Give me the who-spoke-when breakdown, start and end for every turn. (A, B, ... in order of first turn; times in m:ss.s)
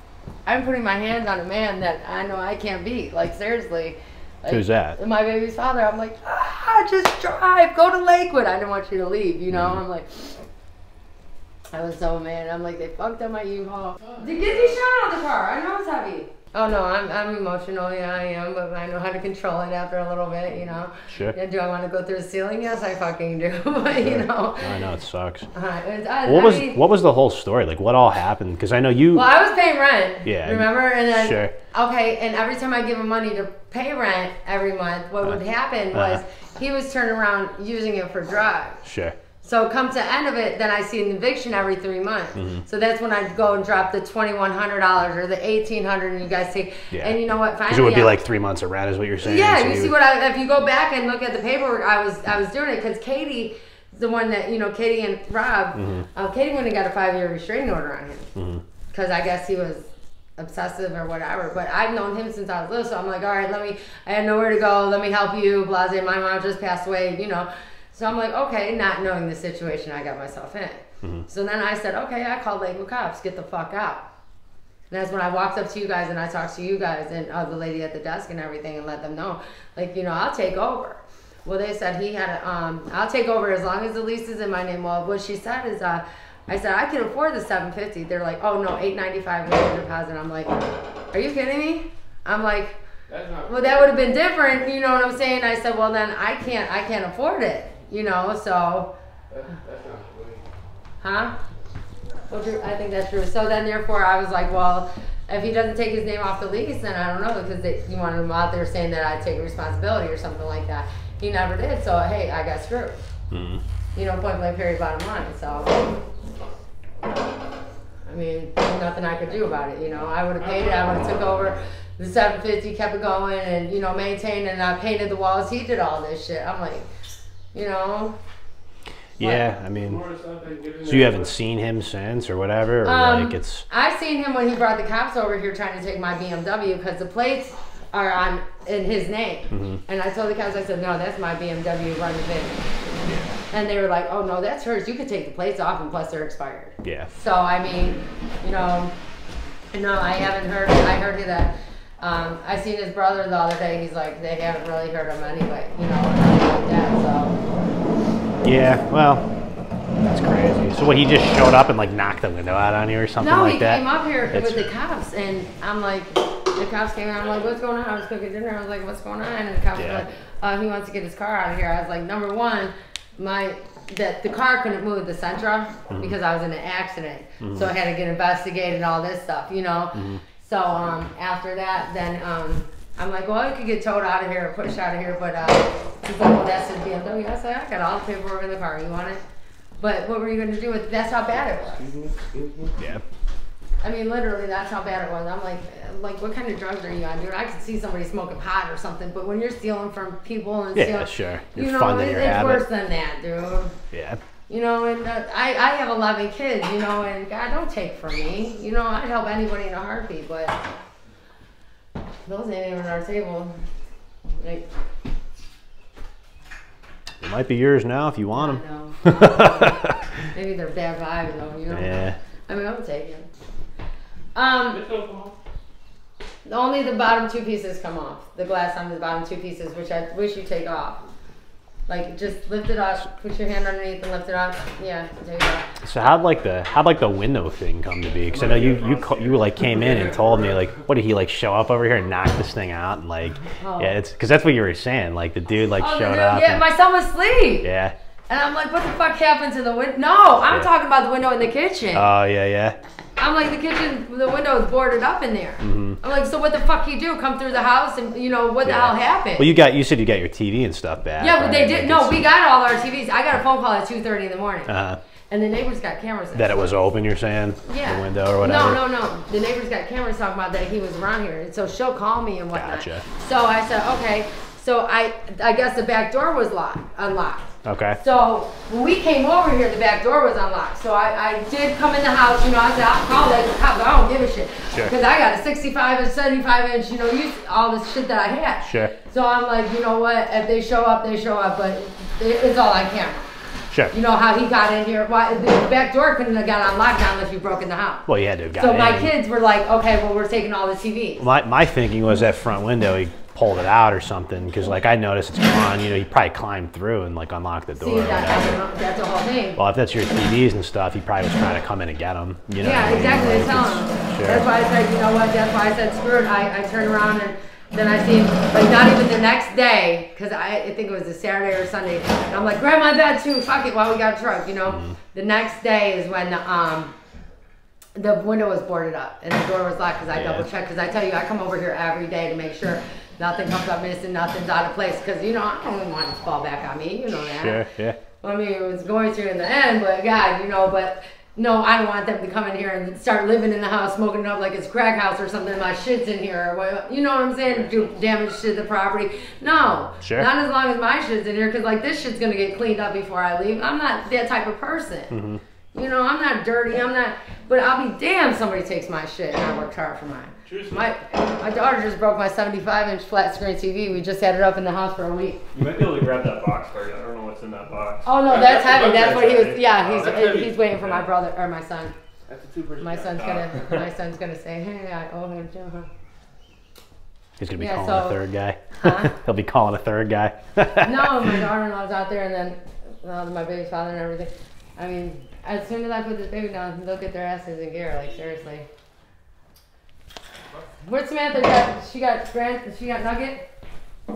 0:00.5-0:10.3 A
0:04.5-0:05.0 B
0:09.5-0:09.8 B
0:11.7-0:24.7 A
0:14.1-0:14.3 C
0:21.1-0:21.4 B
0:24.0-0:25.5 B
0:25.5-0:26.8 A
0:26.2-0:29.3 B
0:29.1-0:38.8 A
0:30.2-0:31.5 B
0:35.9-0:36.2 B
0:38.8-0:39.2 B
0:39.4-0:48.2 A
0:42.4-0:42.6 B
0:46.9-0:47.2 B
0:47.7-0:49.9 B
0:49.2-0:58.3 A
0:55.8-0:56.1 B
0:58.4-0:58.6 B
0:58.9-1:14.1 A
1:14.9-1:32.8 A
1:33.1-1:34.0 C
1:33.5-1:38.9 A
1:39.3-1:40.4 C
1:41.0-1:41.4 A
1:42.3-1:53.0 A
1:53.3-1:53.6 B
1:54.0-1:55.9 A
1:58.1-2:06.9 A
2:00.4-2:01.3 C
2:07.5-2:08.2 A
2:09.2-2:10.0 B
2:09.8-2:11.3 C
2:10.8-2:13.6 B
2:12.8-2:22.6 A
2:19.5-2:19.8 B
2:23.0-2:23.4 B
2:23.5-2:28.9 A
2:26.8-2:27.1 B
2:29.7-2:37.4 A
2:38.4-2:39.2 B
2:40.0-2:44.7 B
2:43.2-3:09.2 A
2:49.8-2:50.0 B
2:57.4-2:57.7 B
2:59.9-3:00.2 B
3:09.8-3:11.9 A
3:11.3-3:12.7 C
3:12.8-3:13.0 B
3:13.8-3:23.8 A
3:20.8-3:22.6 B
3:23.9-3:24.2 B
3:24.5-3:30.6 A
3:32.2-3:33.6 A
3:34.4-3:34.6 A
3:37.2-3:39.8 B
3:38.4-3:43.3 A
3:41.7-3:42.2 B
3:44.4-3:44.8 A
3:44.7-3:45.4 C
3:46.4-3:51.0 A
3:51.9-3:55.7 A
3:55.8-4:06.6 B
3:58.3-4:00.7 C
4:03.4-4:04.0 A
4:05.8-4:07.7 A
4:07.6-4:08.0 B
4:08.3-4:12.1 A
4:11.9-4:12.8 B
4:13.2-4:19.5 A
4:15.6-4:16.0 B
4:18.6-4:22.2 B
4:21.2-4:24.7 A
4:24.7-4:25.0 B
4:25.3-4:26.8 A
4:26.4-4:28.8 B
4:27.6-4:53.3 A
4:32.5-4:33.0 B
4:37.6-4:38.0 B
4:48.6-4:48.9 B
4:53.9-5:01.2 A
4:58.1-4:59.1 B
5:01.2-5:08.6 B
5:07.8-5:09.6 A
5:09.6-5:14.4 B
5:12.6-5:27.0 A
5:24.7-5:25.0 B
5:28.0-5:37.6 A
5:30.1-5:30.5 B
5:37.2-5:38.0 B
5:38.2-5:55.1 A
5:47.5-5:47.9 C
5:50.0-5:50.3 B
5:55.1-5:55.4 B
5:55.7-6:05.4 A
6:00.5-6:00.8 D
6:05.5-6:08.1 D
6:08.0-6:11.9 A
6:08.3-6:11.1 C
6:12.3-6:13.6 C
6:12.8-6:15.9 A
6:13.3-6:13.8 D
6:17.4-6:21.4 B
6:17.6-6:18.2 A
6:18.8-6:19.2 A
6:20.8-6:28.7 A
6:30.8-6:33.5 A